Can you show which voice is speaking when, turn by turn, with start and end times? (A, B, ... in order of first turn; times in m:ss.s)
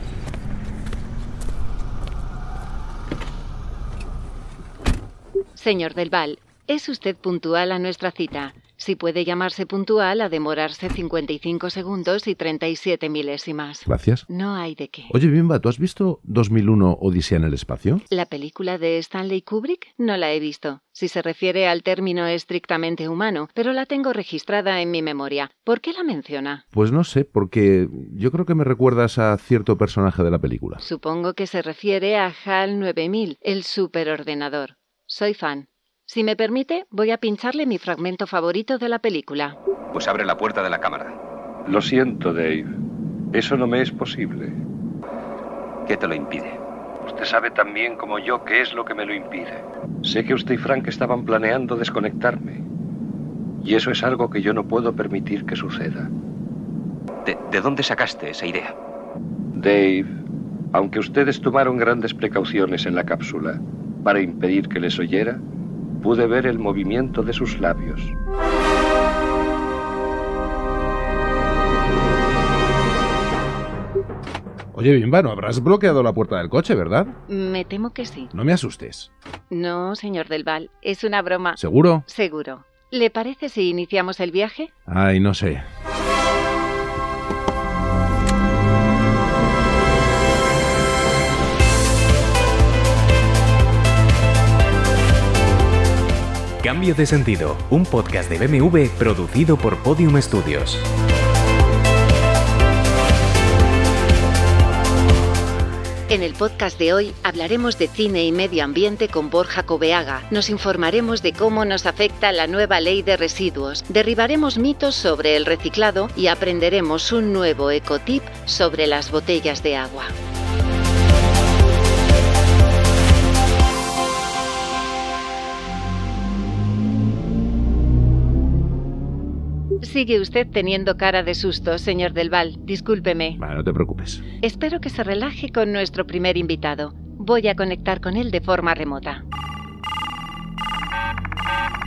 0:05.6-0:15.1 A
0:13.9-0:14.2 B
0:15.1-0:18.0 B
0:18.1-0:26.6 A
0:26.7-0:30.8 B
0:30.8-0:39.6 A
0:39.9-0:41.2 C
0:41.6-0:42.7 D
0:43.3-0:44.6 D
0:45.9-0:46.6 C
0:47.0-0:52.6 D
0:53.6-0:56.1 D
0:57.2-0:58.8 C
0:59.5-1:00.1 D
1:00.7-1:05.4 D
1:06.0-1:08.2 D
1:14.7-1:17.2 B
1:17.3-1:18.3 A
1:18.3-1:19.1 B
1:19.5-1:24.7 A
1:21.6-1:22.0 B
1:24.9-1:25.6 B
1:36.6-1:40.8 E
1:46.1-2:00.1 A
2:09.8-2:13.4 A
2:13.4-2:14.2 B
2:14.4-2:19.2 A